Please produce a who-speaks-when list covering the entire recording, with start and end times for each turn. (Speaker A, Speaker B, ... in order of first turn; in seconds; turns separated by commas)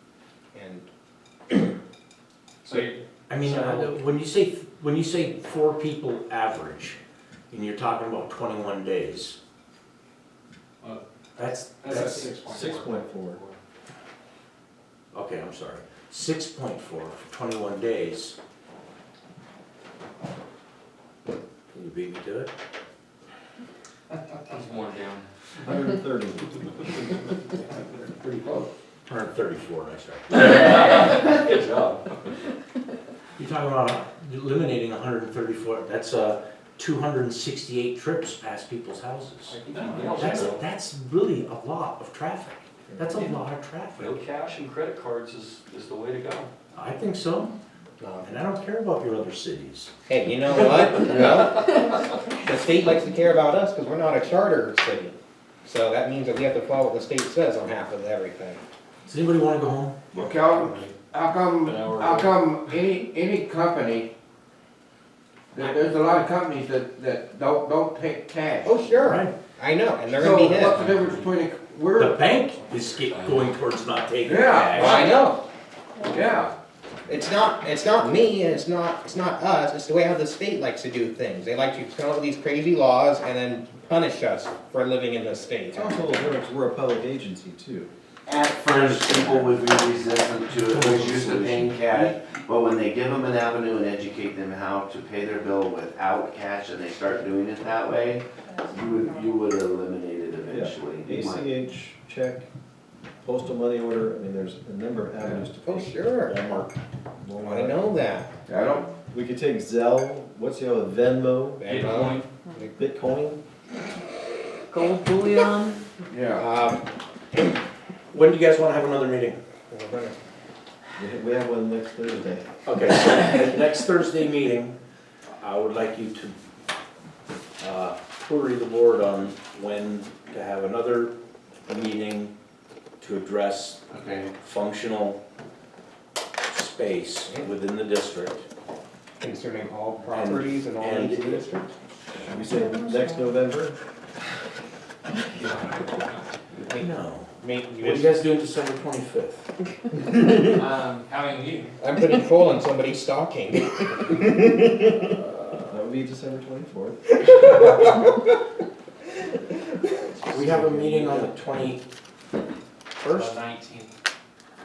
Speaker A: 0.5-0.8, Speaker A: 1.5-1.8, Speaker B: 2.6-3.9, Speaker C: 3.3-7.0, Speaker C: 7.5-9.4, Speaker C: 11.3-12.3, Speaker B: 11.8-13.0, Speaker D: 12.0-13.4, Speaker C: 15.1-18.4, Speaker C: 21.7-22.5, Speaker E: 24.5-25.3, Speaker D: 25.6-27.1, Speaker F: 28.0-28.6, Speaker C: 29.1-30.7, Speaker E: 30.3-32.2, Speaker C: 33.4-44.2, Speaker E: 39.5-40.6, Speaker E: 44.0-46.5, Speaker C: 46.7-47.5, Speaker A: 48.0-48.3, Speaker C: 48.2-49.9, Speaker A: 50.1-58.6, Speaker F: 51.0-51.5, Speaker C: 59.0-60.0, Speaker F: 60.1-64.1, Speaker E: 61.6-62.3, Speaker F: 65.5-68.7, Speaker A: 68.6-70.8, Speaker C: 69.0-69.3, Speaker F: 70.1-72.2, Speaker E: 70.5-71.2, Speaker C: 72.0-75.1, Speaker E: 72.9-73.4, Speaker F: 74.2-75.2, Speaker A: 74.7-75.4, Speaker F: 76.0-76.5, Speaker A: 77.1-86.4, Speaker D: 85.7-87.9, Speaker G: 88.2-101.5, Speaker C: 88.7-89.6, Speaker C: 90.5-92.2, Speaker D: 100.5-102.4, Speaker D: 103.2-107.8, Speaker A: 105.6-106.4, Speaker A: 107.4-108.3, Speaker F: 108.5-108.9, Speaker D: 109.1-111.7, Speaker A: 111.6-112.7, Speaker E: 111.6-112.3, Speaker D: 112.8-113.4, Speaker G: 114.7-115.8, Speaker F: 116.1-116.4, Speaker A: 116.3-116.8, Speaker C: 118.1-119.4, Speaker A: 119.7-120.2, Speaker D: 121.0-122.5, Speaker C: 122.6-124.8, Speaker C: 125.4-126.3, Speaker C: 127.6-131.1, Speaker C: 131.7-132.3, Speaker C: 133.0-135.2, Speaker F: 133.9-134.3, Speaker C: 136.5-138.4, Speaker A: 139.2-141.7, Speaker C: 140.1-141.4, Speaker D: 142.2-143.8, Speaker B: 145.3-146.2, Speaker A: 146.7-148.2, Speaker C: 146.7-149.5, Speaker B: 150.6-151.7, Speaker A: 151.8-155.1, Speaker D: 155.1-157.2, Speaker A: 157.2-158.1, Speaker C: 160.3-161.8, Speaker D: 160.3-161.3, Speaker C: 163.0-163.4, Speaker B: 163.1-163.9